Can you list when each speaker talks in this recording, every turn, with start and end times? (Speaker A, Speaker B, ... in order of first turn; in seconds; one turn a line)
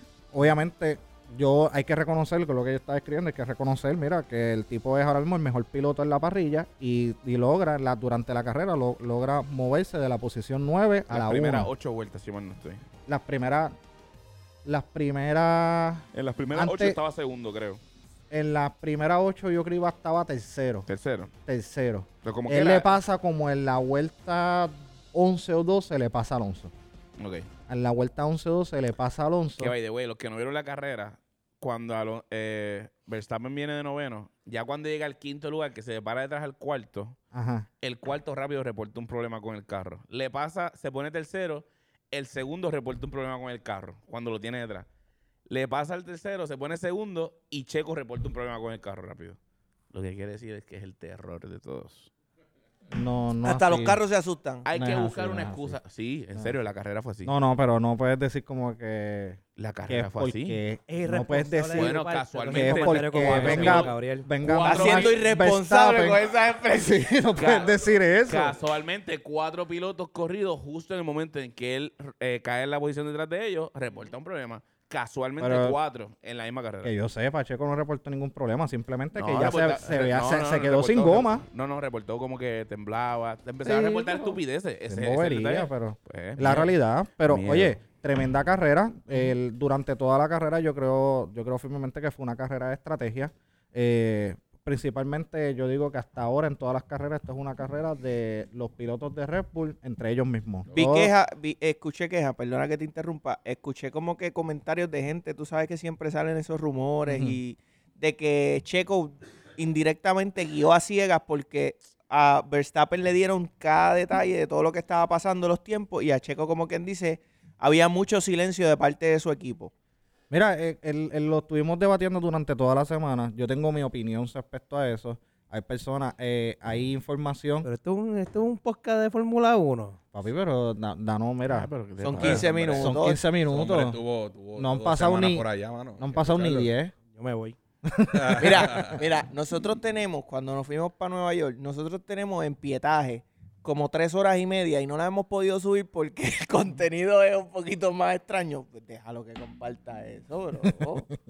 Speaker A: 0.3-11.7
Speaker B: 11.1-12.8
Speaker A: 13.1-13.8
Speaker A: 14.6-17.0
Speaker B: 16.1-17.8
Speaker A: 18.3-20.9
Speaker B: 20.9-21.3
Speaker A: 21.4-26.7
Speaker B: 22.2-22.9
Speaker B: 27.2-27.5
Speaker A: 27.7-29.7
Speaker B: 29.6-37.2
Speaker A: 37.3-37.7
Speaker B: 37.8-44.9
Speaker B: 45.5-49.4
Speaker B: 49.9-52.1
Speaker A: 52.9-54.0
Speaker C: 53.4-54.6
Speaker B: 54.6-57.3
Speaker A: 54.7-55.8
Speaker A: 57.2-62.0
Speaker B: 59.6-60.6
Speaker D: 60.9-64.3
Speaker B: 61.7-65.2
Speaker A: 62.5-68.6
Speaker C: 64.6-67.1
Speaker B: 67.4-67.7
Speaker B: 68.2-76.9
Speaker A: 75.4-75.8
Speaker A: 76.8-81.4
Speaker B: 79.1-86.7
Speaker A: 83.6-101.1
Speaker B: 87.3-87.7
Speaker C: 100.7-119.7
Speaker A: 107.0-107.4
Speaker A: 120.3-127.7
Speaker D: 127.6-130.0
Speaker A: 130.1-134.0
Speaker B: 131.5-132.6
Speaker C: 132.0-133.2
Speaker E: 132.2-136.7
Speaker A: 134.6-135.4
Speaker A: 136.0-136.9
Speaker D: 137.1-137.6
Speaker A: 137.8-138.9
Speaker E: 138.1-139.0
Speaker C: 138.3-151.1